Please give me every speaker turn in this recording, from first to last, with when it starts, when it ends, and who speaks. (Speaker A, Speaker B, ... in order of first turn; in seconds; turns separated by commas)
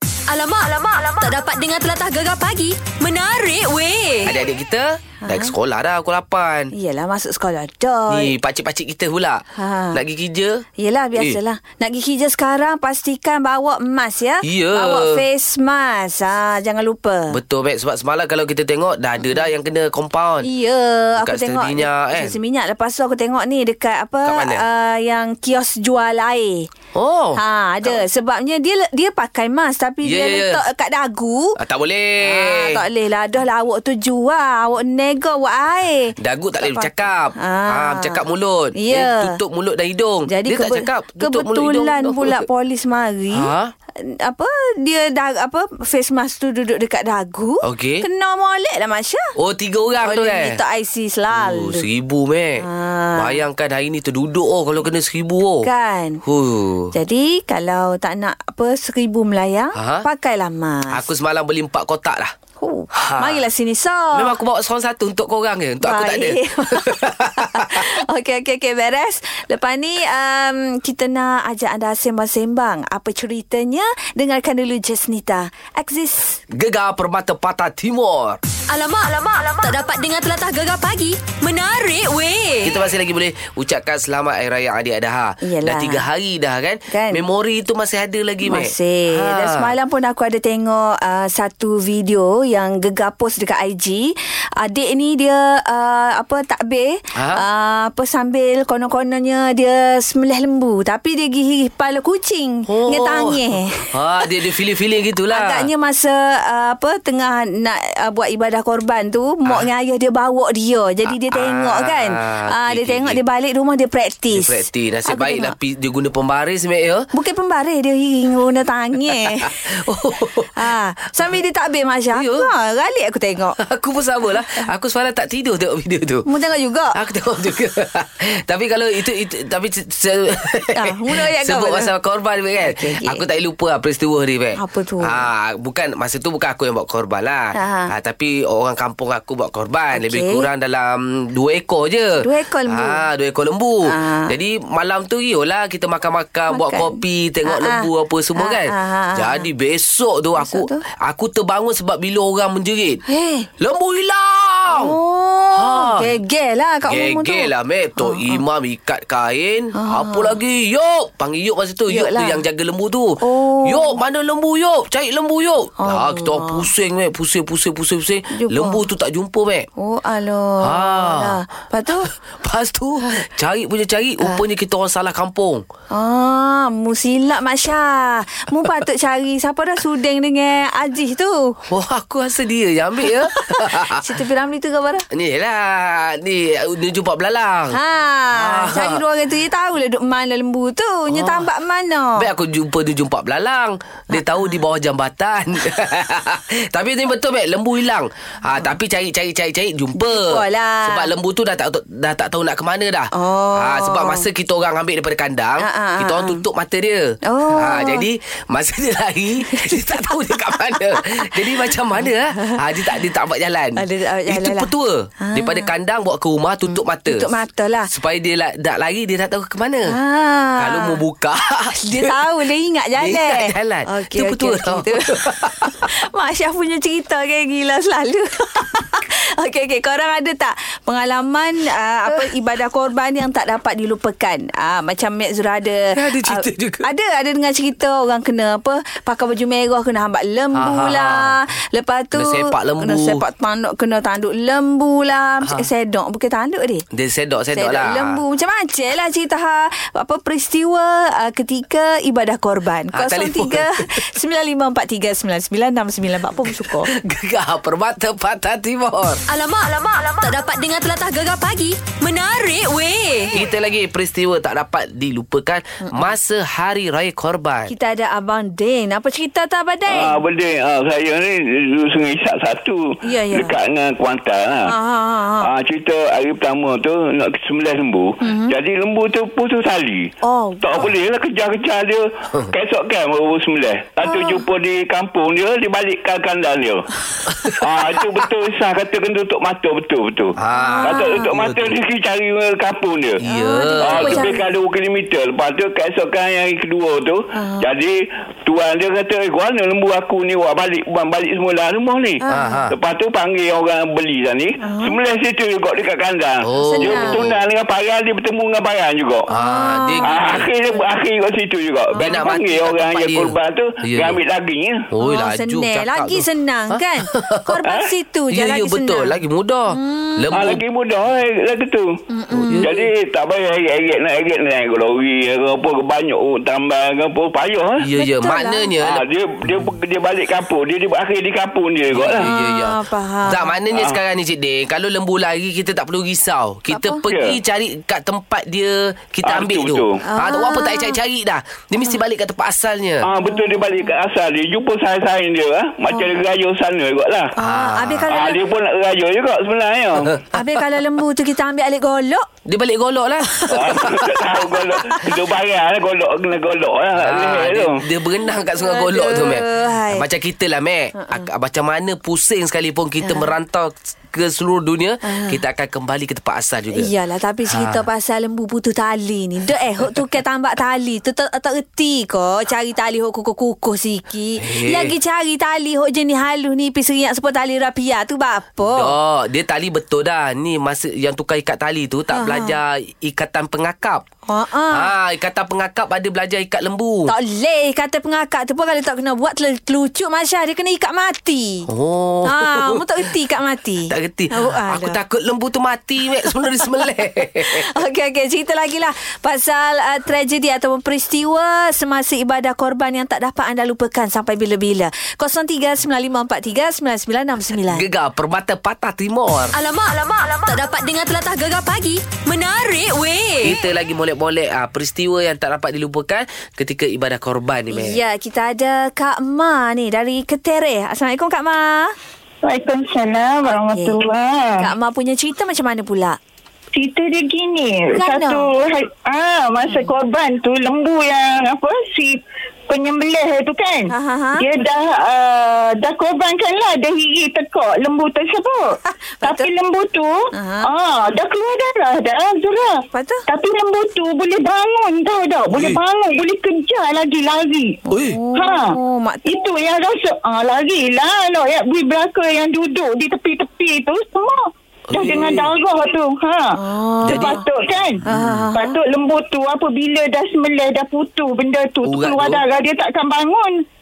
Speaker A: 0.3-4.3, Speaker B: 4.2-6.7, Speaker C: 5.2-5.5, Speaker C: 6.7-8.3, Speaker B: 8.1-10.6, Speaker C: 9.6-10.0, Speaker C: 10.8-17.4, Speaker B: 14.4-15.2, Speaker B: 17.3-20.5, Speaker C: 20.4-26.7, Speaker B: 21.2-22.4, Speaker B: 24.2-24.6, Speaker B: 26.9-28.0, Speaker C: 27.4-31.6, Speaker B: 30.0-30.6, Speaker B: 31.6-32.8, Speaker C: 32.2-38.2, Speaker B: 36.2-42.4, Speaker C: 38.7-39.4, Speaker C: 40.3-49.3, Speaker B: 43.3-43.7, Speaker B: 47.6-48.0, Speaker B: 49.4-50.6, Speaker C: 50.0-51.9, Speaker B: 51.3-55.7, Speaker C: 52.6-53.4, Speaker C: 55.6-56.2, Speaker B: 56.2-56.9, Speaker C: 56.9-61.0, Speaker B: 59.7-60.0, Speaker B: 60.9-62.3, Speaker C: 62.6-64.3, Speaker B: 62.9-63.5, Speaker B: 64.1-67.8, Speaker C: 65.8-76.4, Speaker B: 76.5-78.4, Speaker A: 78.7-82.8, Speaker B: 82.6-89.7, Speaker C: 85.4-86.0, Speaker C: 86.9-87.2, Speaker C: 88.4-103.9, Speaker B: 97.1-97.4, Speaker B: 102.7-105.7, Speaker C: 105.3-115.5, Speaker B: 111.1-113.2, Speaker B: 114.3-117.1, Speaker C: 117.1-119.6, Speaker B: 119.0-120.7, Speaker C: 120.6-123.6, Speaker B: 122.1-122.5, Speaker B: 123.6-126.2, Speaker C: 126.2-126.9, Speaker B: 126.9-153.0, Speaker C: 130.7-131.9, Speaker C: 132.6-133.2, Speaker C: 134.6-135.3, Speaker C: 137.5-137.9, Speaker C: 139.9-140.5, Speaker C: 142.2-143.0, Speaker C: 143.8-144.3, Speaker C: 146.5-149.4, Speaker C: 150.4-150.8, Speaker C: 153.1-153.5, Speaker B: 153.6-154.9, Speaker C: 154.7-158.4, Speaker B: 155.5-156.1, Speaker B: 156.9-169.7, Speaker C: 159.7-160.4, Speaker C: 161.9-162.4, Speaker C: 163.2-164.0, Speaker C: 165.8-166.6, Speaker C: 168.3-168.8, Speaker C: 169.8-172.1, Speaker B: 170.6-171.4, Speaker B: 172.4-175.6, Speaker C: 175.9-181.6, Speaker B: 181.7-184.2, Speaker C: 183.3-185.1, Speaker B: 185.1-187.8, Speaker C: 187.7-192.2, Speaker B: 188.3-189.0, Speaker B: 191.1-191.5, Speaker B: 192.2-217.3, Speaker C: 194.1-194.6, Speaker C: 199.9-201.1, Speaker C: 203.1-204.3, Speaker C: 205.6-206.4, Speaker C: 207.2-208.0, Speaker C: 209.5-210.5, Speaker C: 211.1-211.5, Speaker C: 212.3-212.9, Speaker C: 213.8-215.7, Speaker C: 216.7-217.9, Speaker B: 217.9-219.9, Speaker C: 219.9-221.0, Speaker B: 220.6-222.2, Speaker C: 221.8-246.8, Speaker B: 223.0-225.8, Speaker B: 235.9-236.9, Speaker B: 240.5-241.4, Speaker B: 242.1-243.2, Speaker B: 246.9-248.2, Speaker C: 247.5-256.9, Speaker B: 252.9-254.0, Speaker B: 256.6-259.2, Speaker A: 259.3-263.3, Speaker B: 263.3-267.7, Speaker C: 267.7-270.2, Speaker D: 269.9-272.8, Speaker C: 273.0-273.5, Speaker D: 273.3-274.7, Speaker C: 274.7-275.5, Speaker D: 275.4-280.1, Speaker C: 278.2-278.6, Speaker C: 280.2-280.7, Speaker D: 280.6-286.9, Speaker C: 284.0-284.4, Speaker B: 287.3-287.6, Speaker D: 287.6-293.2, Speaker B: 290.4-291.7, Speaker C: 290.5-291.3, Speaker B: 293.2-294.3, Speaker C: 293.2-294.4, Speaker D: 293.8-309.2, Speaker C: 297.3-297.7, Speaker C: 302.2-302.6, Speaker B: 302.3-302.8, Speaker C: 304.6-305.0, Speaker B: 306.4-307.2, Speaker C: 306.6-307.3, Speaker C: 309.3-310.2, Speaker B: 309.3-310.5, Speaker D: 310.0-314.8, Speaker B: 312.0-314.2, Speaker B: 314.9-317.4, Speaker C: 315.0-319.1, Speaker B: 318.3-320.6, Speaker C: 319.7-320.4, Speaker D: 320.3-321.9, Speaker C: 322.1-322.8, Speaker B: 322.3-322.7, Speaker D: 322.6-327.8, Speaker B: 327.8-329.0, Speaker C: 328.0-328.7, Speaker D: 328.8-332.2, Speaker B: 331.9-343.1, Speaker C: 332.2-333.5, Speaker C: 336.7-337.0, Speaker D: 337.1-337.4, Speaker D: 339.2-339.9, Speaker C: 340.0-341.0, Speaker D: 343.0-347.3, Speaker C: 343.2-343.9, Speaker C: 345.9-346.2, Speaker C: 347.4-348.4, Speaker B: 347.4-348.1, Speaker D: 348.1-350.1, Speaker C: 350.3-352.2, Speaker B: 352.4-354.0, Speaker D: 353.5-357.8, Speaker B: 357.0-366.9, Speaker C: 358.6-360.0, Speaker C: 361.0-361.3, Speaker C: 363.0-363.3, Speaker C: 365.0-365.4, Speaker C: 366.7-378.9, Speaker B: 367.5-367.8, Speaker B: 374.4-374.9, Speaker B: 378.7-384.0, Speaker C: 382.1-382.6, Speaker C: 384.3-384.9, Speaker B: 384.7-387.1, Speaker C: 387.1-391.7, Speaker B: 391.7-393.1, Speaker C: 392.2-395.0, Speaker B: 393.9-397.7, Speaker C: 397.5-407.8, Speaker B: 407.7-409.6, Speaker A: 409.5-413.6, Speaker B: 413.4-418.0, Speaker C: 417.7-421.9, Speaker E: 422.4-424.7, Speaker C: 423.4-424.0, Speaker C: 424.6-426.2, Speaker E: 426.7-438.6, Speaker C: 427.9-428.5, Speaker C: 429.6-429.9, Speaker C: 433.9-434.5, Speaker C: 439.0-439.5, Speaker E: 439.2-440.1, Speaker C: 440.4-440.7, Speaker E: 440.6-447.8, Speaker C: 442.9-443.2, Speaker B: 445.5-445.8, Speaker C: 447.9-449.4, Speaker B: 447.9-448.2, Speaker E: 448.3-454.4, Speaker B: 454.9-455.5, Speaker E: 454.9-463.6, Speaker C: 456.6-457.4, Speaker B: 457.1-457.4, Speaker C: 458.0-458.8, Speaker B: 458.1-458.5, Speaker B: 461.8-462.4